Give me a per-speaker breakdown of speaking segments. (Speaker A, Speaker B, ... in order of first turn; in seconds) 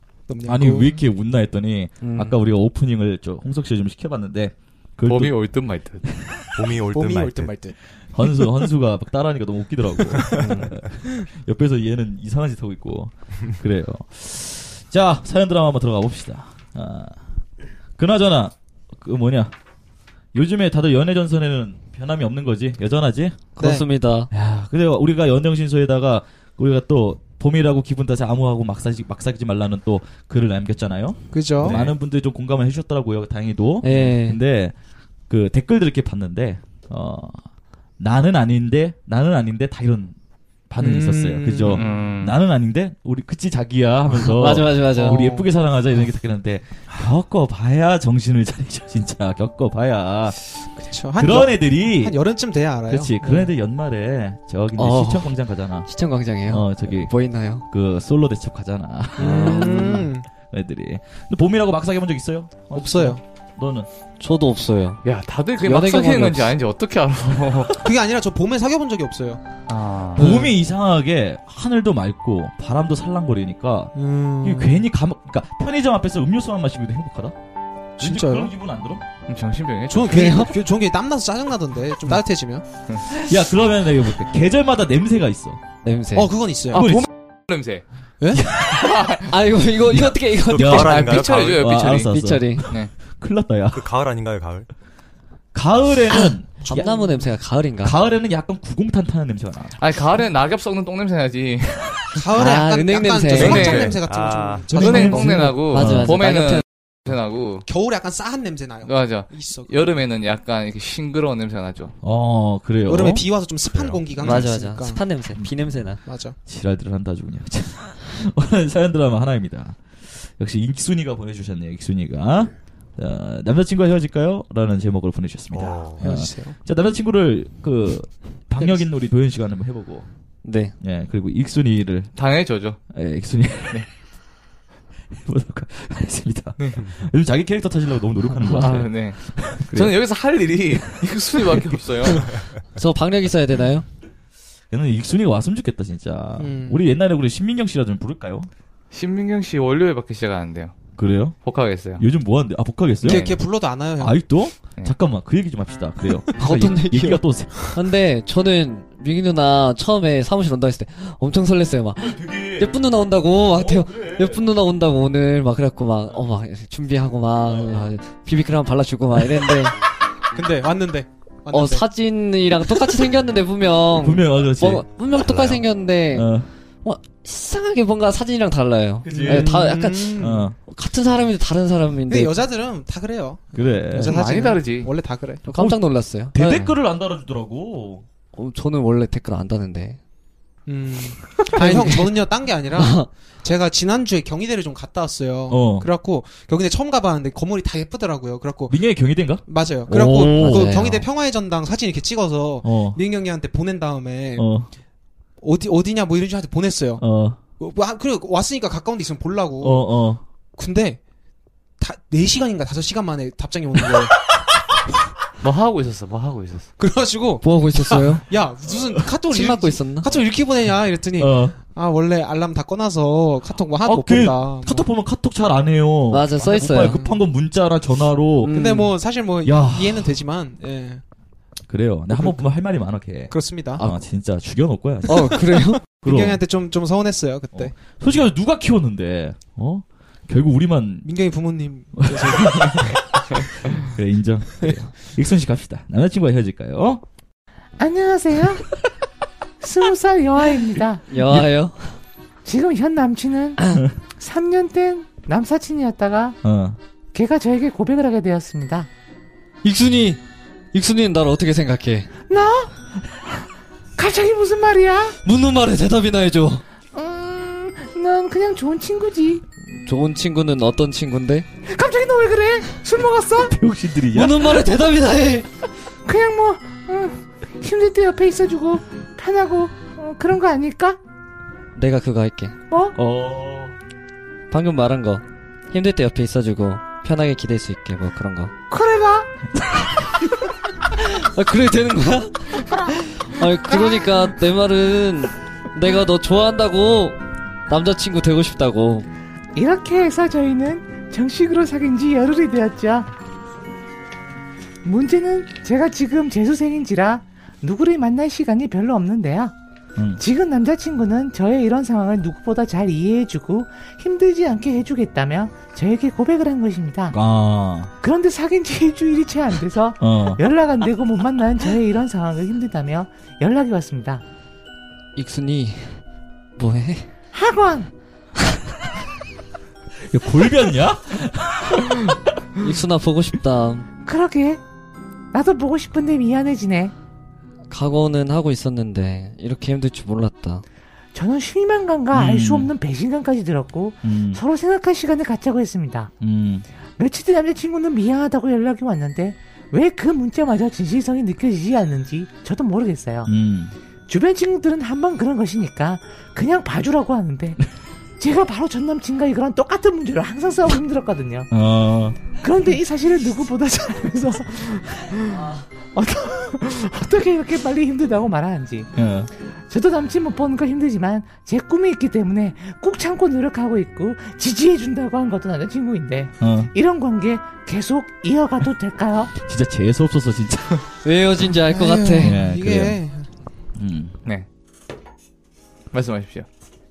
Speaker A: 0.3-1.0, 6.9-8.4, 23.6-23.9, 31.3-31.9, 40.8-42.0, 45.0-45.5, 50.8-53.5, 59.2-60.3, 62.7-63.2, 67.8-69.4, 73.9-74.8, 78.0-78.5, 79.9-82.6, 86.1-86.8, 88.2-88.4, 96.6-97.3, 102.1-105.6, 107.6-110.0, 112.8-115.2, 116.0-116.4, 126.0-126.6, 146.4-146.8, 153.0-154.2, 170.3-171.9, 179.1-180.5, 182.1-185.5, 190.7-198.8, 199.4-204.4, 205.4-207.0, 207.6-209.8, 210.6-211.0, 211.8-214.3, 216.8-224.9, 226.8-227.2, 228.5-231.0, 232.1-232.5, 233.3-233.9, 235.6-237.7, 241.0-243.1, 381.6-383.3
Speaker B: 0.4-5.4, 6.2-6.6, 8.1-17.1, 18.0-19.5, 20.3-23.4, 24.3-34.7, 35.3-37.4, 38.0-40.1, 40.7-50.4, 51.2-52.2, 52.9-55.9, 56.4-63.9, 70.2-77.3, 78.0-79.0, 83.1-85.6, 86.7-87.1, 88.3-89.1, 90.5-93.8, 95.5-97.1, 97.8-99.8, 104.7-106.1, 112.0-113.2, 115.3-115.8, 116.4-130.1, 130.8-132.2, 132.9-133.9, 135.1-139.9, 144.7-148.5, 151.0-157.7, 161.9-162.7, 163.5-164.4, 167.5-167.9, 174.0-174.8, 176.1-176.5, 179.0-180.5, 183.5-184.3, 185.5-188.0, 195.5-195.9, 198.7-200.7, 202.6-203.0, 204.4-204.7, 207.0-207.4, 209.6-210.2, 221.2-221.6, 223.8-228.5, 229.4-230.2, 231.7-235.4, 236.0-236.4, 237.5-241.1, 242.0-247.0, 256.4-256.8, 273.4-274.6, 282.9-283.7, 309.9-310.2, 317.1-317.9, 320.0-320.4, 330.1-332.2, 342.1-342.7, 344.0-344.4, 346.2-346.6, 353.2-353.7, 361.5-362.2, 368.9-369.3, 376.4-376.7, 379.4-380.8, 382.2-383.0, 383.8-384.2
Speaker C: 2.0-2.4, 10.3-10.7, 23.6-24.3, 33.8-34.4, 44.1-45.4, 54.8-55.3, 55.9-57.6, 59.3-60.0, 64.2-65.0, 65.6-66.5, 70.2-70.5, 80.1-80.5, 85.8-86.3, 89.3-91.0, 92.1-92.7, 96.6-97.9, 102.3-103.8, 105.0-106.6, 114.2-116.0, 130.4-130.7, 142.7-143.8, 156.4-169.8, 171.5-176.3, 176.8-182.4, 185.4-186.8, 188.3-190.0, 191.4-192.2, 192.7-193.1, 200.4-201.1, 217.4-218.2, 219.2-220.1, 226.1-227.0, 228.4-229.0, 235.1-235.9, 251.1-252.0, 259.6-260.2, 260.7-262.1, 265.2-266.6, 269.6-271.5, 274.1-275.5, 281.7-282.6, 284.5-288.5, 290.9-299.1, 325.1-326.0, 326.6-327.1, 332.6-333.9, 337.7-340.6, 381.0-382.4
Speaker D: 5.0-6.0, 41.7-42.4, 65.0-67.9, 69.7-70.4, 79.3-80.4, 86.7-87.8, 88.7-89.3, 90.7-92.1, 99.8-102.2, 103.3-104.0, 104.7-107.7, 108.8-111.9, 132.1-132.8, 136.6-136.8, 138.4-142.4, 148.9-150.8, 151.4-152.0, 153.0-153.4, 184.0-184.9, 215.4-216.7, 385.9-386.5
Speaker E: 6.5-7.6, 90.2-91.7, 93.7-94.7, 103.3-104.8, 113.6-114.5, 125.5-126.1, 175.1-175.6
Speaker F: 247.8-248.6, 249.6-251.0, 252.4-256.4, 257.1-258.9, 262.3-262.7, 263.9-265.2, 266.9-269.4, 271.6-273.5, 276.0-281.0, 282.7-282.9, 288.7-289.3, 299.5-303.1, 304.8-309.5, 310.2-317.1, 318.0-324.2, 327.3-327.9, 334.0-334.6, 335.3-336.9, 341.1-346.1, 347.0-353.3, 354.1-357.6, 358.2-361.5, 362.3-368.9, 369.7-379.3